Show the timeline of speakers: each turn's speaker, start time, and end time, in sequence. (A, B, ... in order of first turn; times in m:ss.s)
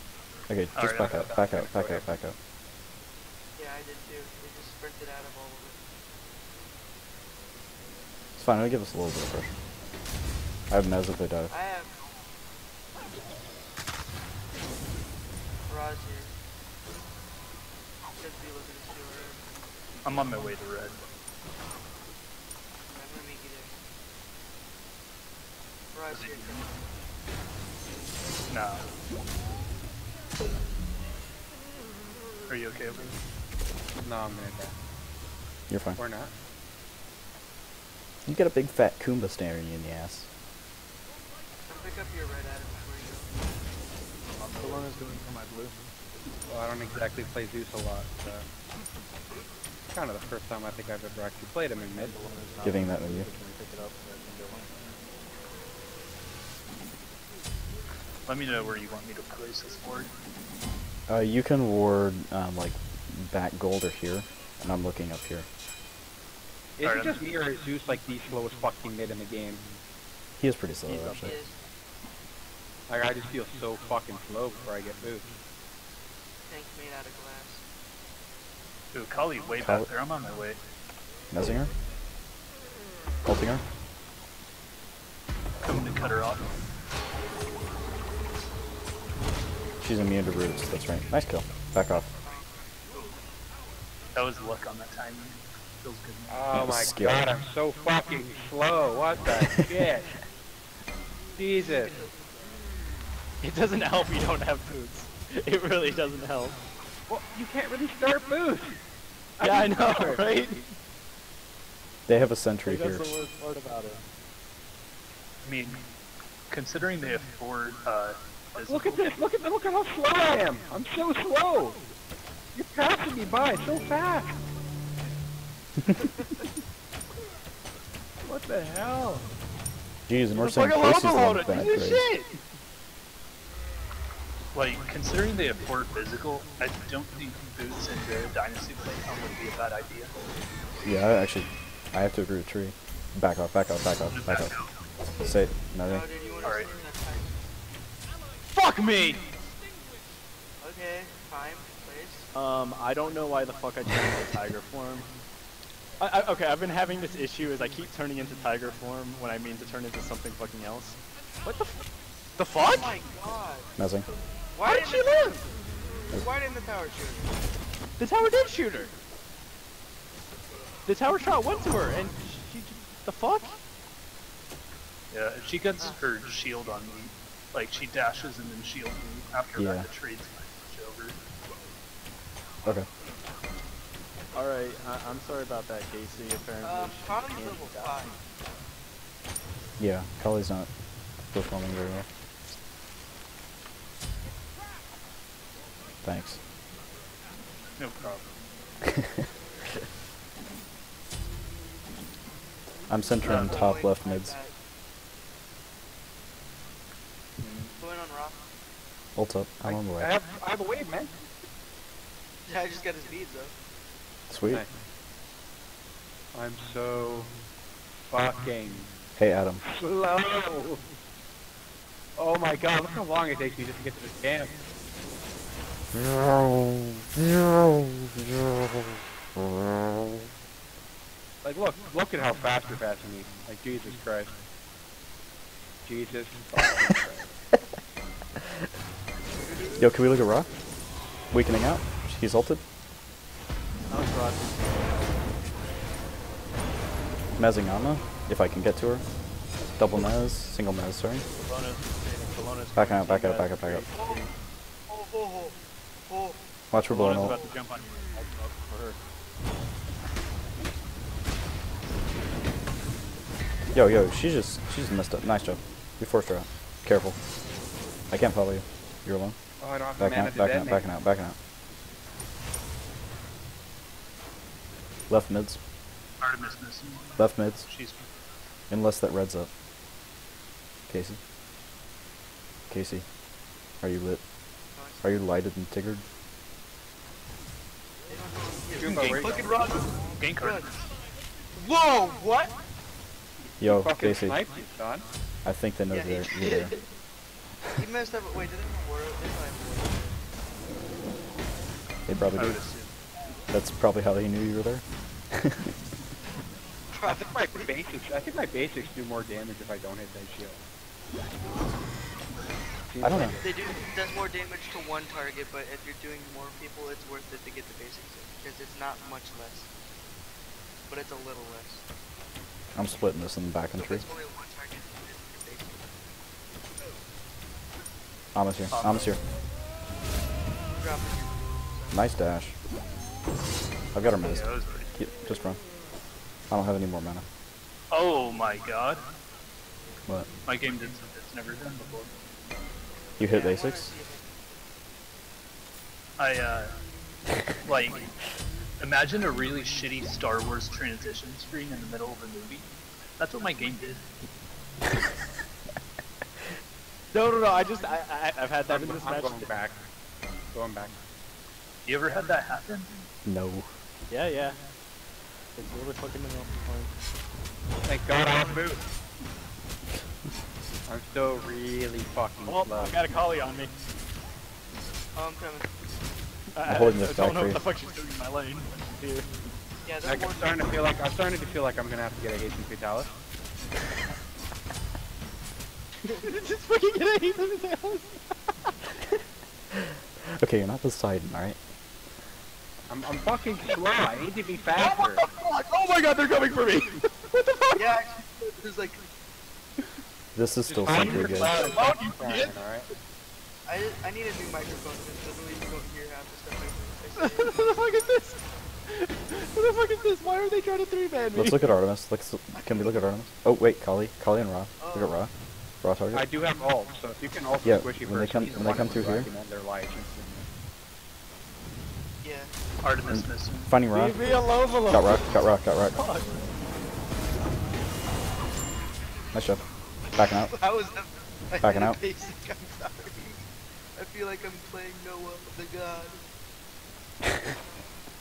0:00.5-0:02.4 A
0:00.8-0:01.4 B
0:00.9-0:02.2 C
0:03.6-0:05.8 D
0:08.4-0:09.5 A
0:10.7-0:11.5 A
0:11.5-0:12.1 D
0:15.7-0:16.4 D
0:18.2-0:19.5 D
0:20.0-0:21.0 B
0:22.9-0:23.8 D
0:25.9-0:26.6 D
0:26.1-0:26.6 B
0:28.5-0:28.9 B
0:32.5-0:33.2 B
0:34.0-0:34.7 C
0:35.7-0:36.0 A
0:36.0-0:36.3 C
0:38.3-0:40.3 A
0:41.7-0:43.3 D
0:44.4-0:44.9 B
0:44.6-0:45.8 E
0:46.5-0:48.5 C
0:49.9-0:52.2 C
0:52.0-0:54.8 E
0:52.6-0:53.3 A
0:58.3-1:00.1 B
1:01.1-1:05.5 A
1:06.8-1:09.6 C
1:06.8-1:07.2 B
1:10.4-1:11.3 A
1:10.9-1:11.3 E
1:11.1-1:11.6 D
1:12.9-1:15.3 C
1:16.5-1:17.6 D
1:18.9-1:20.6 B
1:19.6-1:19.9 A
1:21.3-1:21.7 A
1:23.2-1:23.6 A
1:25.6-1:26.5 B
1:29.8-1:32.1 A
1:32.2-1:33.2 D
1:34.2-1:36.7 B
1:36.3-1:40.2 C
1:36.5-1:37.3 A
1:41.4-1:41.9 C
1:41.6-1:42.3 D
1:43.4-1:46.6 E
1:47.1-1:48.8 C
1:49.4-1:50.6 C
1:49.4-1:50.7 E
1:52.1-1:53.0 A
1:52.6-1:54.0 E
1:55.4-1:55.8 B
1:56.5-1:59.1 B
1:58.6-2:01.8 C
2:02.6-2:04.4 C
2:08.2-2:09.2 E
2:10.1-2:12.1 A
2:10.3-2:12.4 E
2:14.5-2:20.1 B
2:20.8-2:24.6 A
2:24.1-2:24.8 B
2:25.2-2:26.1 A
2:25.8-2:27.4 D
2:26.4-2:26.7 B
2:28.5-2:29.2 E
2:30.6-2:32.3 D
2:32.3-2:35.1 E
2:36.0-2:41.8 E
2:42.4-2:43.0 E
2:42.6-2:43.7 D
2:43.8-2:44.1 A
2:44.5-2:45.4 D
2:44.6-2:45.4 E
2:46.1-2:47.4 D
2:48.0-2:48.9 E
2:50.9-2:53.6 E
2:55.1-3:01.2 B
2:59.6-2:59.9 A
3:04.3-3:08.0 E
3:06.6-3:08.2 D
3:09.8-3:10.7 A
3:11.2-3:12.1 A
3:16.0-3:16.4 A
3:17.8-3:18.4 B
3:22.9-3:24.4 A
3:23.2-3:23.6 B
3:23.2-3:24.5 D
3:27.8-3:28.4 D
3:29.2-3:30.1 A
3:29.6-3:31.2 C
3:32.5-3:33.5 D
3:34.3-3:34.6 A
3:36.3-3:37.3 C
3:38.1-3:38.9 C
3:39.2-3:39.6 A
3:39.6-3:40.8 C
3:42.2-3:44.5 C
3:51.4-3:54.3 C
3:55.8-3:57.3 C
3:59.8-4:00.6 A
4:01.3-4:02.6 A
4:03.9-4:05.2 E
4:07.4-4:09.0 A
4:09.7-4:11.2 A
4:11.4-4:14.3 E
4:12.8-4:13.8 A
4:13.9-4:14.2 D
4:14.9-4:16.4 D
4:16.7-4:17.4 A
4:16.8-4:19.0 E
4:23.7-4:27.2 A
4:28.1-4:29.4 A
4:29.6-4:30.8 C
4:30.0-4:31.4 A
4:35.1-4:35.6 A
4:36.2-4:38.2 B
4:37.2-4:37.7 A
4:38.7-4:39.5 A
4:40.9-4:41.2 A
4:42.7-4:43.1 A
4:43.8-4:44.2 A
4:44.8-4:45.2 D
4:45.0-4:46.0 A
4:48.1-4:50.8 D
4:48.8-4:49.6 C
4:48.8-4:50.9 B
4:51.5-4:52.6 D
4:53.6-4:54.4 A
4:53.6-4:55.0 C
4:55.4-4:56.7 A
4:55.9-4:56.8 D
4:57.7-5:00.1 D
5:02.1-5:02.6 A
5:02.4-5:02.9 B
5:03.5-5:05.7 A
5:06.9-5:07.7 D
5:07.0-5:10.6 C
5:12.9-5:13.5 C
5:13.0-5:13.4 A
5:13.4-5:19.7 D
5:20.9-5:21.8 D
5:22.7-5:24.1 A
5:23.7-5:25.8 D
5:28.4-5:29.2 A
5:28.7-5:29.1 B
5:30.8-5:32.0 D
5:31.9-5:32.5 A
5:33.9-5:35.7 A
5:34.2-5:34.9 B
5:36.5-5:37.2 A
5:37.9-5:39.1 B
5:40.4-5:42.1 B
5:43.2-5:43.9 A
5:43.2-5:44.3 D
5:46.2-5:46.8 B
5:47.6-5:48.2 B
5:48.8-5:54.0 B
5:57.1-5:59.5 E
5:58.7-5:59.8 C
6:00.5-6:01.0 C
6:01.8-6:02.9 B
6:03.2-6:03.7 A
6:04.1-6:04.6 E
6:05.6-6:06.9 E
6:07.9-6:08.8 C
6:10.9-6:13.0 C
6:12.4-6:13.7 E
6:15.1-6:15.7 D
6:16.6-6:19.3 E
6:16.6-6:17.6 A
6:19.8-6:20.8 D
6:20.0-6:23.1 C
6:26.0-6:28.7 E
6:29.7-6:31.6 A
6:32.9-6:35.2 C
6:34.8-6:37.9 E
6:37.8-6:39.0 D
6:40.4-6:41.6 A
6:40.8-6:42.9 C
6:40.9-6:42.6 E
6:41.6-6:42.0 D
6:43.6-6:47.9 D
6:47.2-6:51.6 E
6:51.3-6:56.3 A
6:54.8-6:55.2 D
6:56.1-7:00.4 C
6:57.6-6:59.3 A
6:58.4-6:58.8 B
7:02.2-7:02.5 D
7:02.8-7:03.7 B
7:03.1-7:06.0 A
7:03.9-7:05.3 E
7:05.9-7:06.4 E
7:09.3-7:10.5 A
7:10.5-7:16.2 D
7:11.6-7:12.0 A